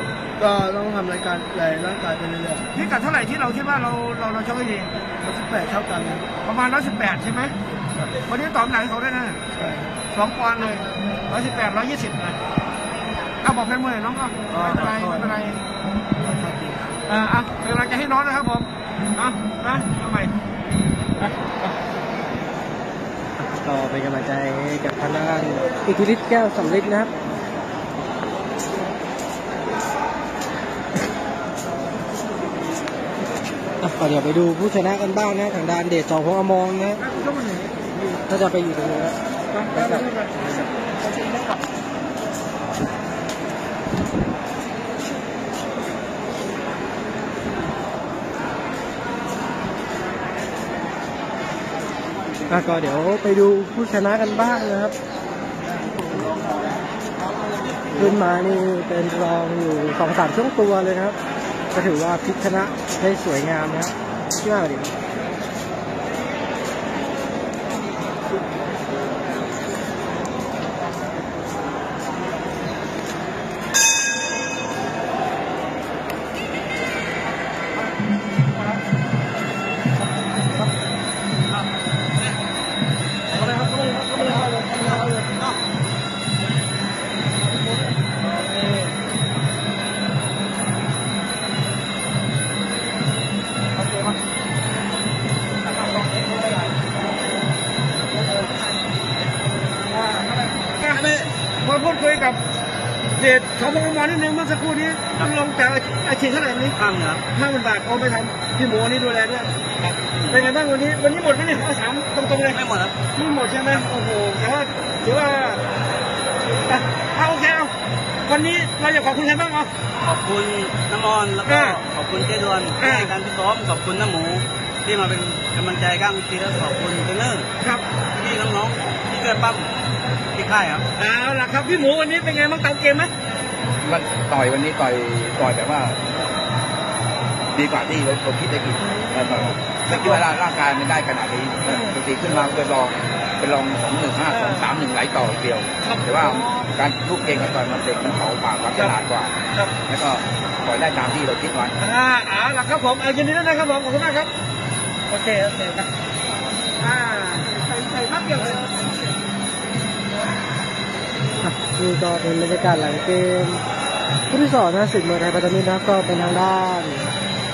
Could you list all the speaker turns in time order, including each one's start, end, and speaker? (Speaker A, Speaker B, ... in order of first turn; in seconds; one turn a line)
Speaker A: 0.4-2.7
Speaker B: 2.7-4.9
Speaker A: 5.2-6.3
Speaker B: 6.4-7.5
Speaker B: 8.3-9.4
Speaker A: 9.5-10.0
Speaker B: 10.1-12.4
Speaker B: 13.4-15.6
Speaker A: 14.5-15.3
Speaker A: 16.2-16.9
Speaker B: 17.1-20.3
Speaker C: 23.4-27.1
Speaker C: 33.8-37.0
Speaker B: 37.0-37.9
Speaker C: 38.2-39.1
Speaker B: 39.5-40.6
Speaker C: 39.7-40.6
Speaker C: 52.5-54.9
Speaker C: 57.9-61.2
Speaker C: 61.7-64.9
Speaker B: 83.3-85.1
Speaker B: 88.2-88.9
Speaker B: 93.8-94.1
Speaker B: 99.8-101.0
Speaker D: 100.9-101.2
Speaker B: 101.6-102.4
Speaker B: 103.2-106.8
Speaker D: 106.8-107.2
Speaker B: 107.3-112.6
Speaker D: 112.5-112.9
Speaker B: 113.1-115.6
Speaker B: 116.7-117.7
Speaker B: 118.2-119.7
Speaker D: 120.0-127.5
Speaker B: 121.4-121.8
Speaker B: 122.8-123.1
Speaker B: 127.6-127.8
Speaker D: 128.1-129.7
Speaker D: 130.3-130.8
Speaker B: 130.9-133.1
Speaker E: 133.8-136.0
Speaker E: 137.5-149.3
Speaker B: 138.8-140.2
Speaker B: 141.7-141.9
Speaker B: 144.3-144.7
Speaker B: 145.8-146.7
Speaker E: 149.9-151.7
Speaker B: 151.8-154.3
Speaker B: 155.1-155.9
Speaker B: 156.8-158.8
Speaker C: 161.4-163.6
Speaker C: 164.3-167.1